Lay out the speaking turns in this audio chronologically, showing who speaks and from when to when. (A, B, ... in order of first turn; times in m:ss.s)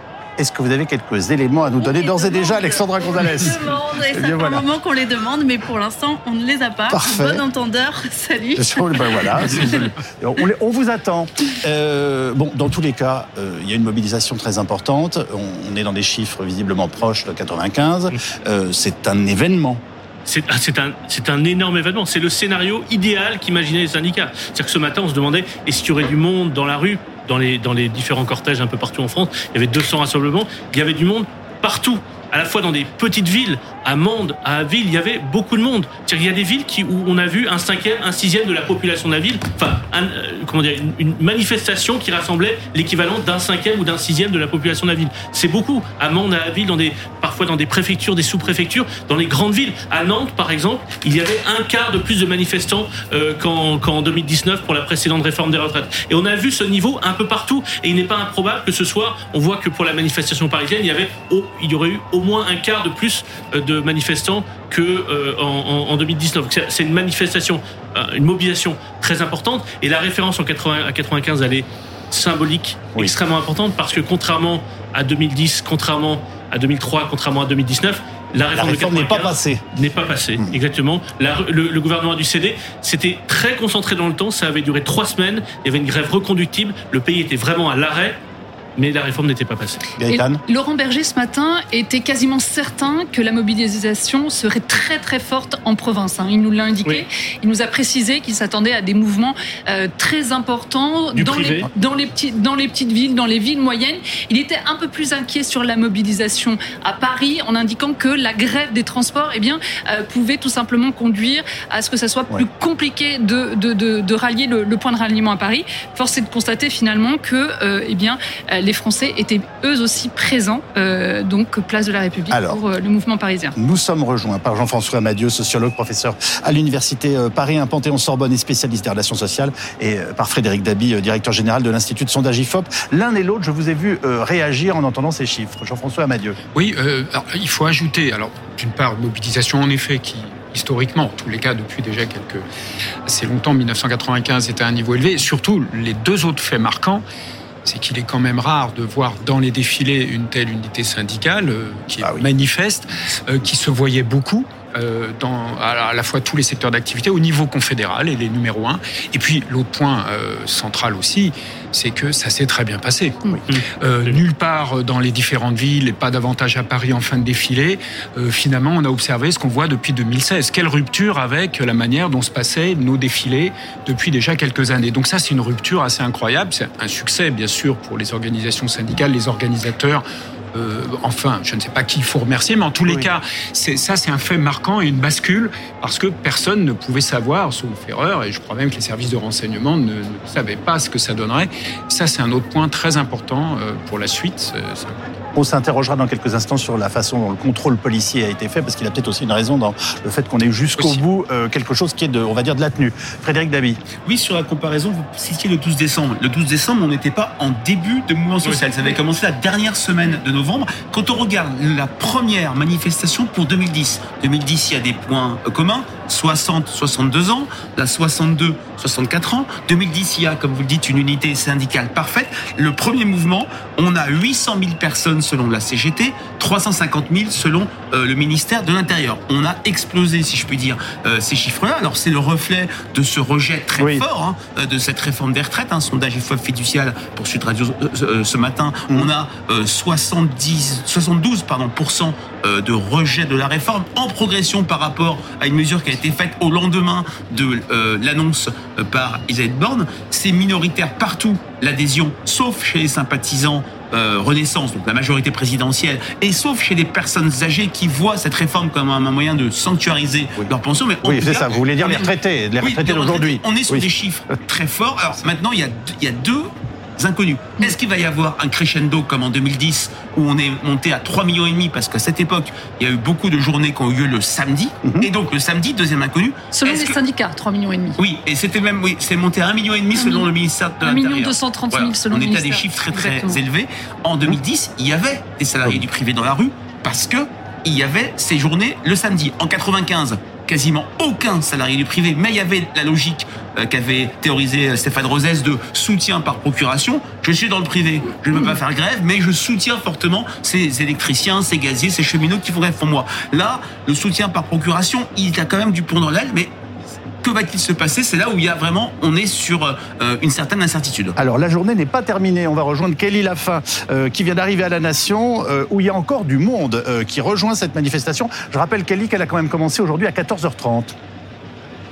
0:00.4-0:04.6 A
0:01.8-0:09.9 B
0:06.9-0:07.4 A
0:08.6-0:19.8 A
0:20.2-1:28.2 C
1:18.5-1:19.6 A
1:28.8-1:29.8 C
1:30.0-1:30.4 A
1:30.0-2:03.5 D
1:41.1-1:41.7 C
2:02.3-2:02.6 A
2:03.6-2:16.4 A
2:16.5-2:22.4 E
2:23.1-2:27.0 E
2:27.6-2:43.2 E
2:32.0-2:32.3 A
2:43.5-2:44.2 C
2:43.8-3:15.0 E
3:15.3-3:23.8 A
3:24.0-4:37.0 F
3:53.8-3:54.0 A
4:21.0-4:23.9 A
4:36.5-4:38.0 D
4:38.0-5:06.6 F
4:39.9-4:40.3 D
4:40.8-4:43.4 D
5:07.2-5:11.2 F
5:11.2-5:20.9 A